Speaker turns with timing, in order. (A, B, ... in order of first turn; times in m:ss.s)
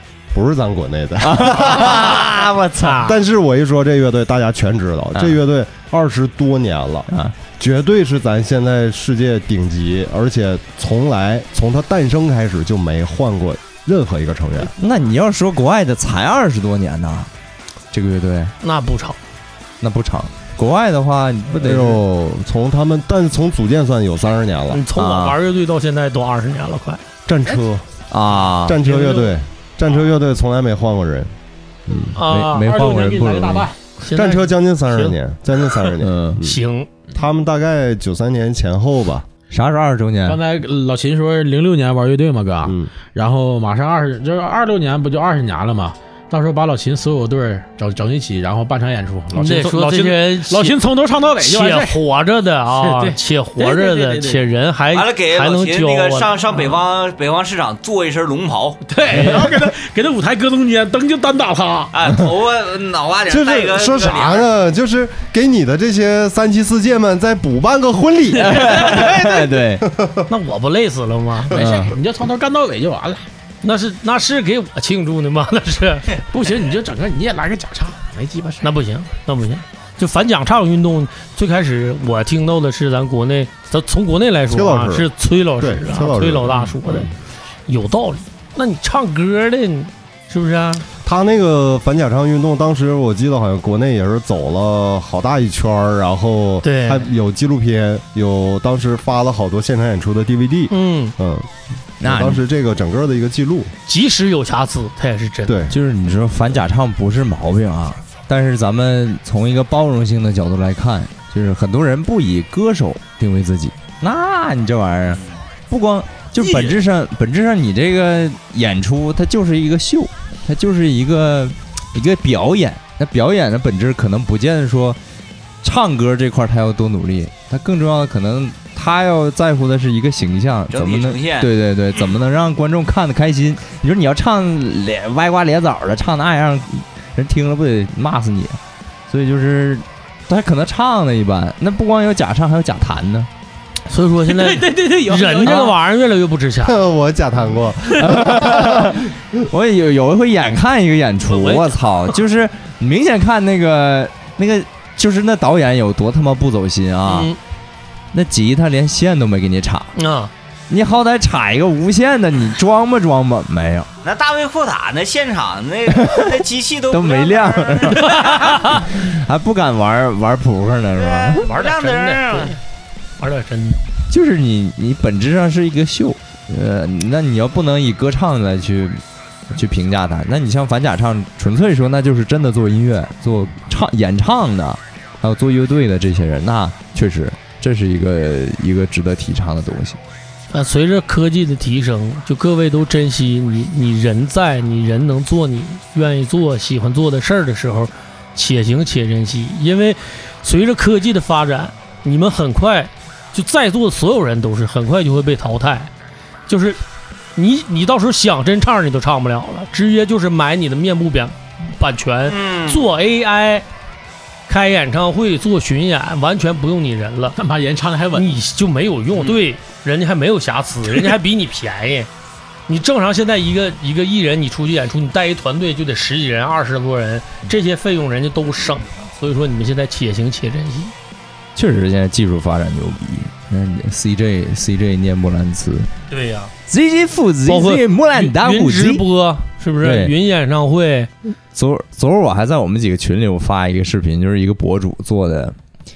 0:00.3-0:14.7 A
0:01.3-0:03.0 B
0:02.8-0:03.1 C
0:07.1-0:07.4 B
0:14.8-0:17.3 B
0:17.9-0:18.5 B
0:18.6-0:19.2 C
0:19.8-0:22.0 B
0:21.5-0:24.8 A
0:24.7-0:27.0 C
0:24.9-0:25.4 B
0:27.3-0:28.0 A
0:28.1-0:28.9 B
0:28.6-0:31.3 A
0:29.0-0:29.3 D
0:31.9-0:32.2 A
0:32.2-0:32.7 C
0:32.2-0:33.7 B
0:32.6-0:33.8 D
0:34.0-0:35.2 C
0:34.1-0:36.6 A
0:36.0-0:36.4 B
0:36.4-0:36.9 C
0:37.2-0:39.3 A
0:39.5-0:40.4 B
0:40.2-0:52.0 D
0:42.6-0:42.9 A
0:49.4-0:50.8 C
0:51.4-0:56.6 C
0:52.7-0:54.4 D
0:54.9-0:58.8 E
0:58.9-1:01.9 D
0:59.1-0:59.4 C
1:01.9-1:04.5 E
1:03.3-1:10.2 A
1:08.4-1:09.9 B
1:10.3-1:11.6 C
1:11.5-1:13.3 D
1:11.6-1:11.9 B
1:13.6-1:16.2 C
1:16.3-1:18.7 D
1:18.6-1:27.1 C
1:24.5-1:27.1 A
1:27.7-1:30.9 C
1:31.0-1:43.7 A
1:36.6-1:37.1 C
1:40.7-1:41.2 C
1:42.0-1:42.4 B
1:43.9-1:45.6 C
1:45.5-1:45.8 A
1:45.7-2:05.0 B
1:55.1-1:55.4 E
2:05.6-2:18.6 B
2:10.7-2:11.5 E
2:19.1-2:23.3 B
2:23.9-2:26.8 C
2:24.3-2:25.8 D
2:26.6-2:29.1 A
2:27.9-2:37.3 B
2:31.3-2:31.8 C
2:37.1-2:37.4 C
2:38.1-2:39.9 B
2:40.0-2:40.3 C
2:40.7-2:43.9 B
2:44.0-2:48.6 E
2:45.9-2:51.5 B
2:48.4-2:48.7 C
2:51.0-2:52.6 E
2:51.4-2:52.6 C
2:53.2-2:53.8 C
2:54.1-3:10.0 B
3:10.5-3:25.9 C
3:26.5-3:26.8 C
3:27.4-3:33.7 C
3:32.3-3:32.8 E
3:34.5-3:37.4 C
3:37.4-3:38.4 D
3:38.1-3:42.1 C
3:42.7-3:50.9 C
3:51.6-3:55.9 B
3:56.1-3:56.5 C
3:56.7-3:59.0 B
3:57.5-4:01.1 C
3:59.8-4:00.2 B
4:01.5-4:05.6 B